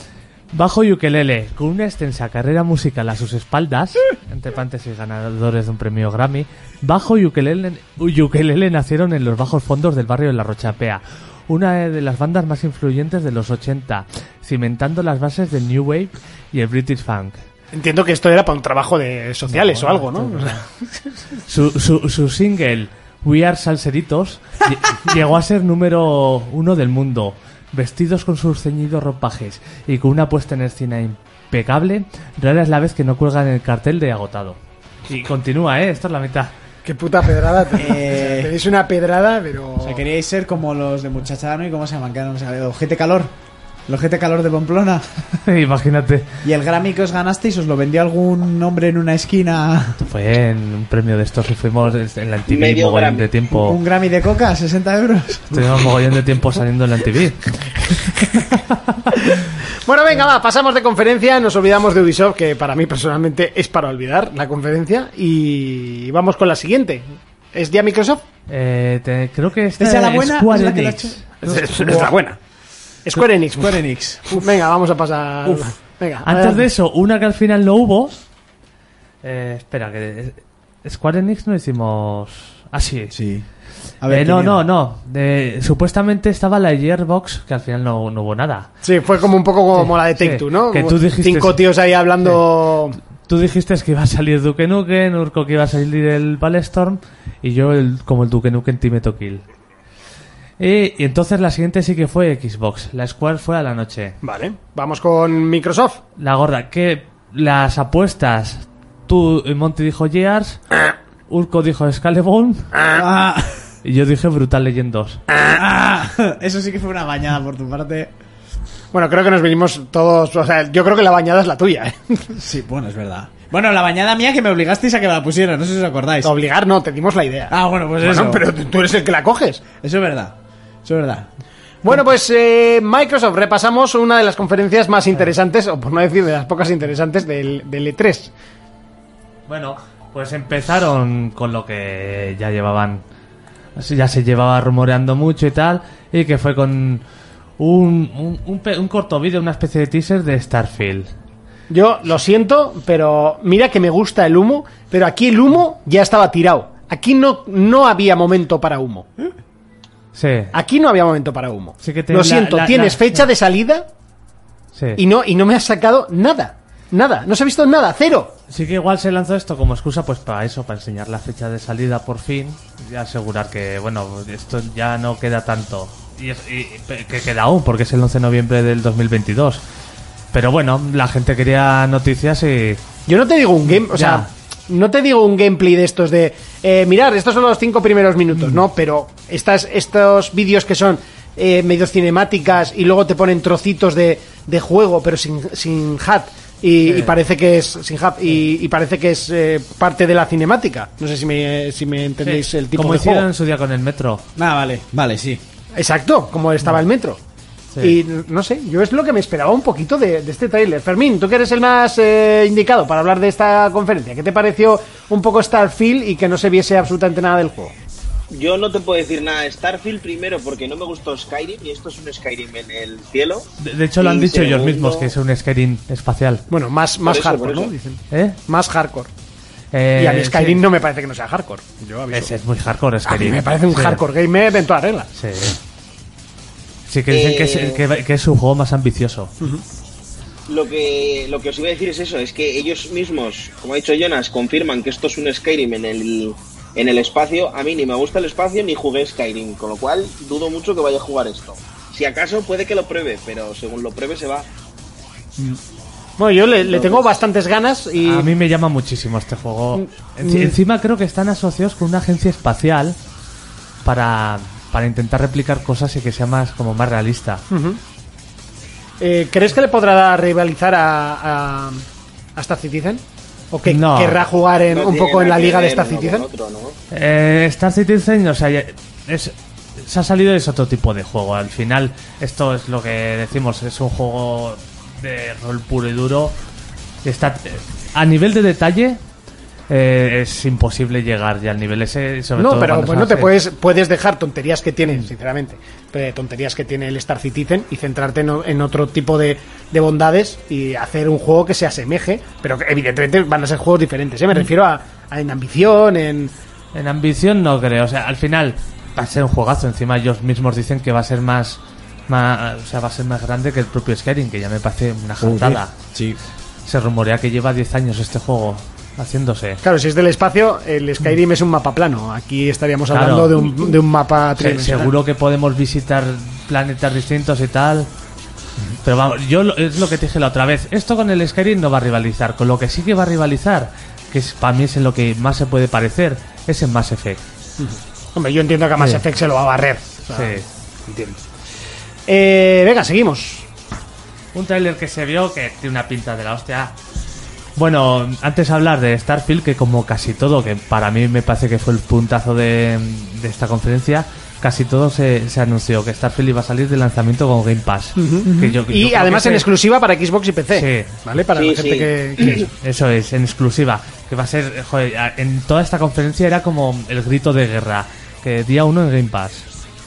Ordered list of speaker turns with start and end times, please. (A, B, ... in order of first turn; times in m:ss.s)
0:00.5-0:17.4 A
0:17.7-0:20.7 B
0:19.5-0:20.6 A
0:21.4-0:36.5 A
0:36.8-0:40.0 B
0:37.7-0:38.5 C
0:39.8-0:43.3 C
0:43.9-0:45.0 C
0:45.4-0:46.4 A
0:46.4-0:50.0 C
0:50.0-0:53.8 A
0:52.5-0:53.3 D
0:53.5-0:55.9 C
0:55.5-0:59.2 A
0:59.8-1:08.2 B
1:08.5-1:12.1 A
1:09.8-1:12.1 C
1:11.4-1:12.4 B
1:13.1-1:16.7 B
1:13.1-1:14.5 C
1:16.2-1:18.2 A
1:19.2-1:23.1 A
1:23.1-1:23.5 C
1:24.0-1:24.6 C
1:24.1-1:28.7 A
1:28.8-1:33.0 B
1:29.8-1:31.6 A
1:33.2-1:39.4 A
1:40.6-1:44.2 A
1:44.2-1:46.0 B
1:46.2-1:50.6 A
1:51.3-1:52.7 A
1:52.8-1:53.0 B
1:52.9-1:53.7 C
1:53.8-1:55.2 A
1:55.4-1:58.1 C
1:58.9-2:02.4 B
2:02.4-2:06.3 C
2:06.2-2:09.6 B
2:07.5-2:08.5 C
2:09.8-2:11.3 C
2:11.8-2:18.3 B
2:19.5-2:23.0 A
2:23.8-2:27.0 A
2:27.6-2:31.1 A
2:31.7-2:39.1 B
2:40.1-2:40.5 A
2:40.5-2:43.9 B
2:41.8-2:43.3 A
2:44.8-2:45.0 A
2:45.0-2:48.4 B
2:48.5-2:59.6 A
3:00.3-3:02.8 A
3:03.1-3:23.3 B
3:03.7-3:04.3 A
3:08.3-3:08.6 A
3:16.8-3:17.2 A
3:22.2-3:24.2 A
3:24.4-3:25.4 C
3:25.7-3:27.2 B
3:27.8-3:37.8 B
3:38.3-3:45.1 D
3:43.6-3:46.5 A
3:46.5-3:49.1 B
3:47.0-3:47.7 D
3:48.1-3:48.4 A
3:49.7-3:50.6 A
3:50.0-3:52.3 B
3:52.1-3:54.0 A
3:53.1-3:55.1 B
3:55.2-3:55.6 A
3:56.9-3:59.3 A
3:57.1-3:57.8 D
4:00.5-4:14.5 D
4:16.2-4:18.3 B
4:16.6-4:17.1 D
4:18.0-4:23.0 A
4:19.8-4:20.6 B
4:23.8-4:27.4 A
4:27.5-4:27.8 B
4:29.0-4:31.8 B
4:32.4-4:36.3 B
4:33.7-4:34.2 A
4:34.7-4:36.8 D
4:36.9-4:46.4 A
4:47.0-4:49.0 A
4:49.7-4:53.3 A
4:52.4-5:06.3 B
5:06.7-5:15.8 A
5:15.2-5:16.2 C
5:16.7-5:19.6 A
5:19.6-5:24.9 B
5:22.9-5:23.8 A
5:24.4-5:27.9 A
5:28.8-5:37.2 A
5:37.6-5:41.2 B
5:38.8-5:39.0 A
5:40.1-5:40.5 A
5:42.1-5:43.5 B
5:44.3-5:46.8 A
5:47.6-5:59.5 A
5:58.0-6:02.5 B
5:58.3-5:58.6 C
6:00.5-6:01.0 A
6:01.3-6:02.5 D
6:02.5-6:09.5 A